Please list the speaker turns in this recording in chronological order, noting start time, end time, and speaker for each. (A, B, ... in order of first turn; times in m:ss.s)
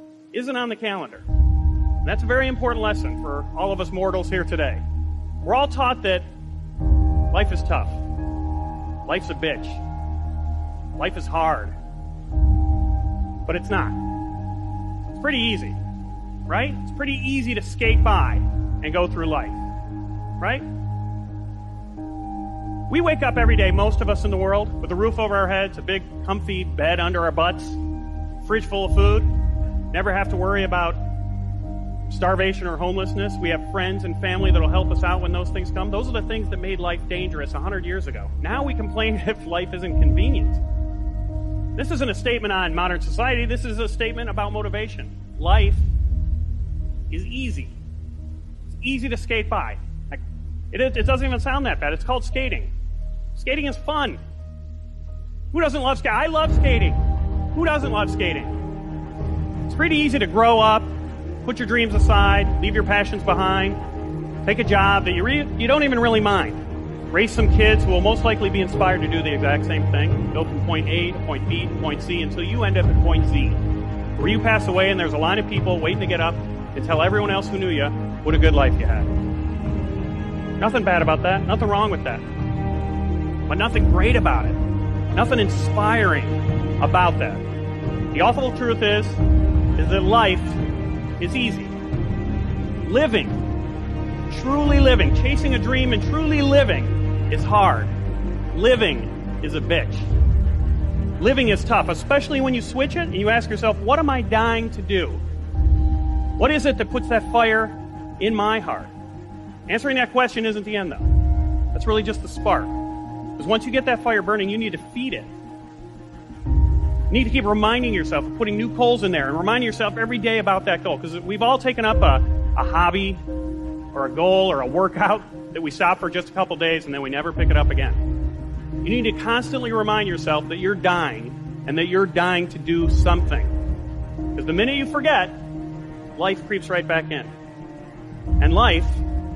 0:00.3-0:01.2 A
0:02.0-0:04.8 A
0:05.4-0:06.2 A
0:07.3-0:08.0 A
0:09.0-0:09.8 A
0:11.0-0:11.7 A
0:13.4-0:14.0 A
0:15.1-0:15.8 A
0:16.5-0:19.6 A
0:20.4-0:20.6 A
0:22.9-0:27.8 A
0:28.4-0:29.3 A
0:29.9-0:31.0 A
0:32.1-0:40.6 A
0:41.8-0:45.9 A
0:47.1-0:47.8 A
0:48.7-0:52.7 A
0:53.3-0:54.2 A
0:55.5-0:57.0 A
0:57.5-0:58.6 A
0:59.6-1:00.9 A
1:01.4-1:03.8 A
1:04.4-1:13.6 A
1:14.2-1:19.1 A
1:20.6-1:22.2 A
1:23.4-1:24.6 A
1:25.1-1:27.4 A
1:28.1-1:29.2 A
1:29.8-1:30.6 A
1:31.2-1:31.8 A
1:32.8-1:33.4 A
1:34.3-1:37.9 A
1:38.5-1:40.1 A
1:41.2-1:45.2 A
1:46.4-1:48.9 A
1:49.7-1:51.1 A
1:51.7-1:52.7 A
1:53.4-1:55.3 A
1:57.1-2:03.2 A
2:03.9-2:08.0 A
2:08.8-2:13.5 A
2:14.3-2:15.4 A
2:16.1-2:17.3 A
2:18.4-2:19.0 A